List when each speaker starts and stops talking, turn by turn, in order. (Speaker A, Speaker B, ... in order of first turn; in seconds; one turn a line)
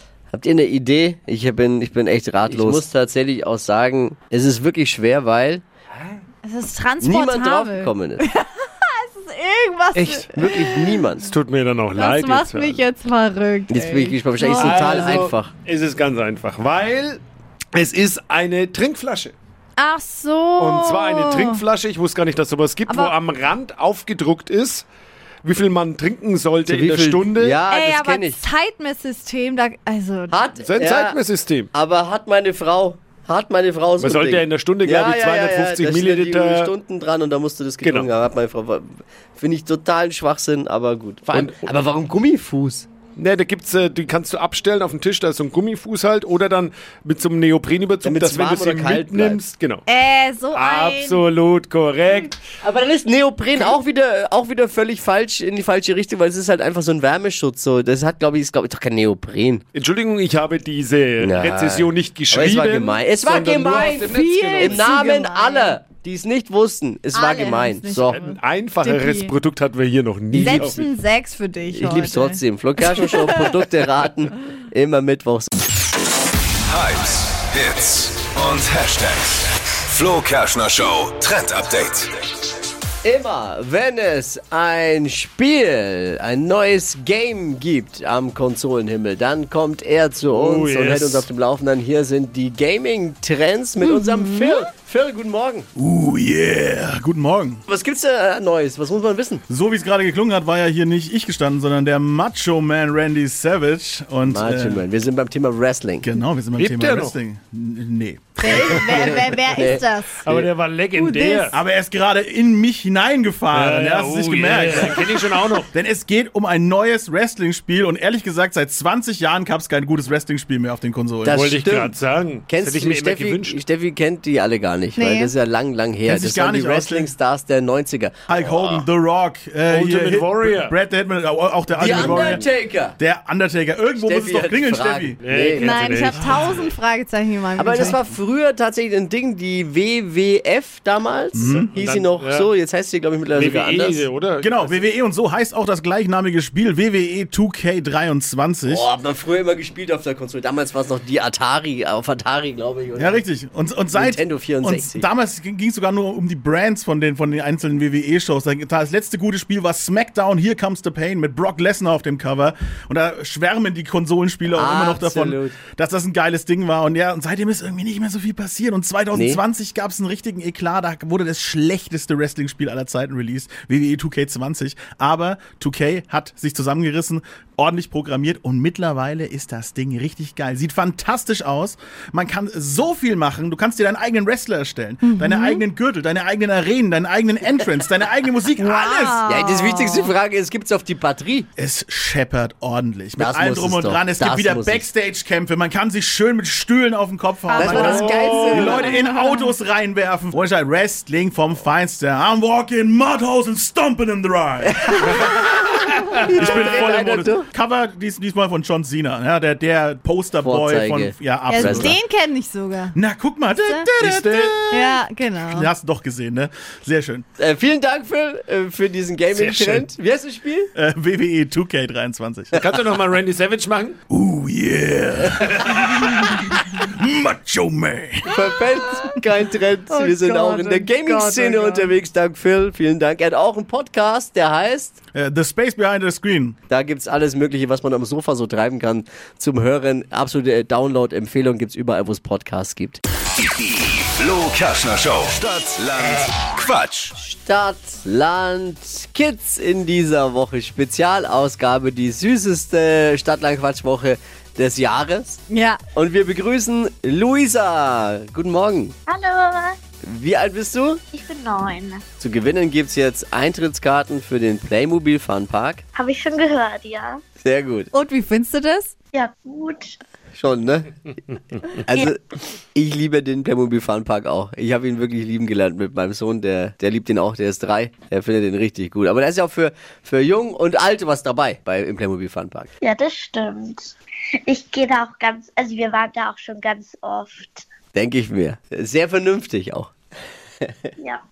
Speaker A: 0.3-5.6
Speaker B: 2.5-2.8
Speaker C: 6.4-10.8
Speaker A: 7.0-8.2
Speaker B: 9.9-10.7
Speaker A: 10.3-11.3
Speaker B: 11.2-12.8
Speaker C: 11.9-15.2
Speaker A: 13.7-15.5
Speaker B: 14.4-17.2
Speaker B: 17.7-19.4
Speaker C: 19.8-21.6
Speaker B: 20.6-24.8
Speaker C: 22.9-23.1
Speaker B: 25.4-27.6
Speaker A: 26.7-28.4
Speaker C: 27.7-30.4
Speaker A: 30.3-31.2
Speaker B: 30.6-31.7
Speaker A: 31.7-42.9
Speaker B: 34.0-36.7
Speaker B: 37.8-38.1
Speaker B: 41.3-41.6
Speaker B: 43.1-49.8
Speaker A: 48.0-49.4
Speaker C: 49.9-51.2
Speaker B: 50.5-52.4
Speaker A: 52.6-59.6
Speaker B: 59.7-64.9
Speaker A: 61.2-68.2
Speaker C: 63.8-65.8
Speaker C: 67.1-69.3
Speaker B: 68.1-70.9
Speaker C: 70.3-73.5
Speaker A: 70.3-70.7
Speaker A: 71.7-75.5
Speaker D: 76.7-82.1
Speaker A: 83.0-95.7
Speaker B: 90.3-91.2
Speaker C: 93.8-94.6
Speaker E: 95.8-97.6
Speaker A: 97.7-99.4
Speaker E: 99.5-104.8
Speaker A: 104.2-106.1
Speaker E: 106.0-109.1
Speaker B: 106.6-107.1
Speaker C: 108.4-110.2
Speaker A: 108.5-110.5
Speaker B: 110.2-111.6
Speaker C: 110.9-111.6
Speaker E: 111.5-121.5
Speaker B: 113.5-115.7
Speaker A: 121.2-122.0
Speaker B: 121.2-123.6
Speaker A: 122.5-128.8
Speaker C: 125.0-125.3
Speaker E: 126.0-127.1
Speaker E: 128.3-132.5
Speaker B: 129.7-130.7
Speaker A: 131.7-133.0
Speaker B: 131.8-132.4
Speaker E: 133.0-135.2
Speaker A: 134.0-136.1
Speaker B: 135.2-136.6
Speaker C: 135.6-138.0
Speaker E: 136.2-136.7
Speaker A: 137.6-144.0
Speaker E: 141.3-141.7
Speaker B: 141.8-142.5
Speaker B: 143.3-144.8
Speaker E: 144.4-148.9
Speaker A: 148.7-153.2
Speaker E: 153.0-189.2
Speaker A: 153.9-155.1
Speaker A: 164.5-165.6
Speaker A: 169.1-169.4
Speaker C: 185.0-185.6
Speaker C: 188.6-190.1
Speaker A: 189.2-191.5
Speaker E: 191.6-212.0
Speaker A: 193.2-194.9
Speaker A: 197.5-199.0
Speaker C: 197.5-199.5
Speaker B: 197.5-198.8
Speaker A: 204.7-207.5
Speaker A: 210.4-211.9
Speaker C: 211.5-213.0
Speaker E: 212.9-217.2
Speaker C: 213.6-213.9
Speaker B: 214.0-214.6
Speaker C: 214.7-215.7
Speaker A: 217.4-220.7
Speaker B: 219.3-219.9
Speaker E: 220.8-222.5
Speaker B: 222.6-224.0
Speaker E: 224.1-228.4
Speaker A: 228.3-235.0
Speaker C: 229.9-231.9
Speaker E: 235.1-236.6
Speaker A: 236.7-243.0
Speaker D: 243.4-247.1
Speaker A: 247.2-255.4
Speaker C: 255.5-255.8
Speaker A: 255.9-258.9
Speaker F: 259.1-259.8
Speaker A: 260.0-261.0
Speaker F: 261.1-262.0
Speaker A: 262.2-265.8
Speaker F: 265.9-267.2
Speaker A: 267.4-267.9
Speaker C: 267.9-268.9
Speaker F: 269.1-270.0
Speaker A: 270.4-271.0
Speaker A: 271.6-282.7
Speaker F: 282.8-283.9
Speaker F: 284.5-287.7
Speaker A: 287.9-289.9